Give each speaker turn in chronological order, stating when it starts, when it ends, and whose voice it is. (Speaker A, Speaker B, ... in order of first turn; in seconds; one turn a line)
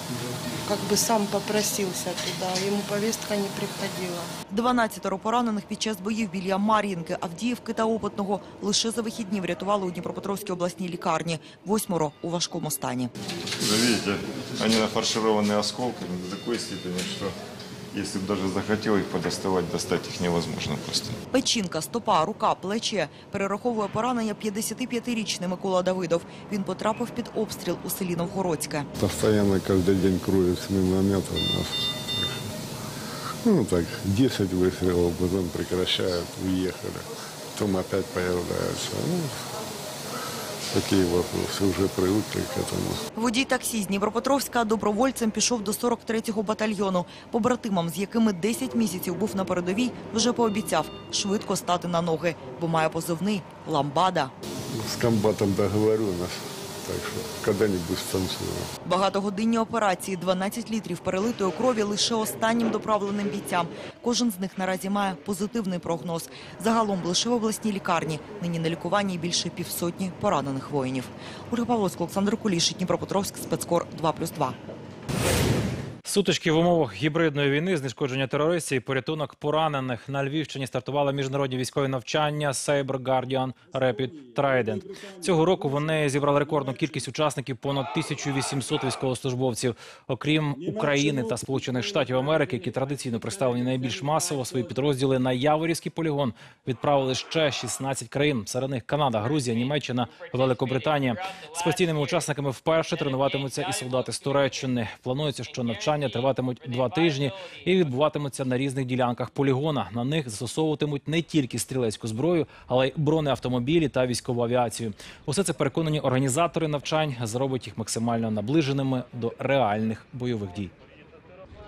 Speaker A: 0.7-4.3
Speaker B: 4.5-13.1
Speaker C: 13.6-17.4
Speaker C: 17.9-21.2
Speaker B: 21.3-28.9
Speaker D: 29.0-32.4
Speaker D: 33.5-37.0
Speaker D: 37.6-39.3
Speaker D: 40.7-43.0
Speaker B: 43.2-54.3
Speaker D: 54.8-58.7
Speaker B: 58.9-74.5
Speaker E: 76.0-120.7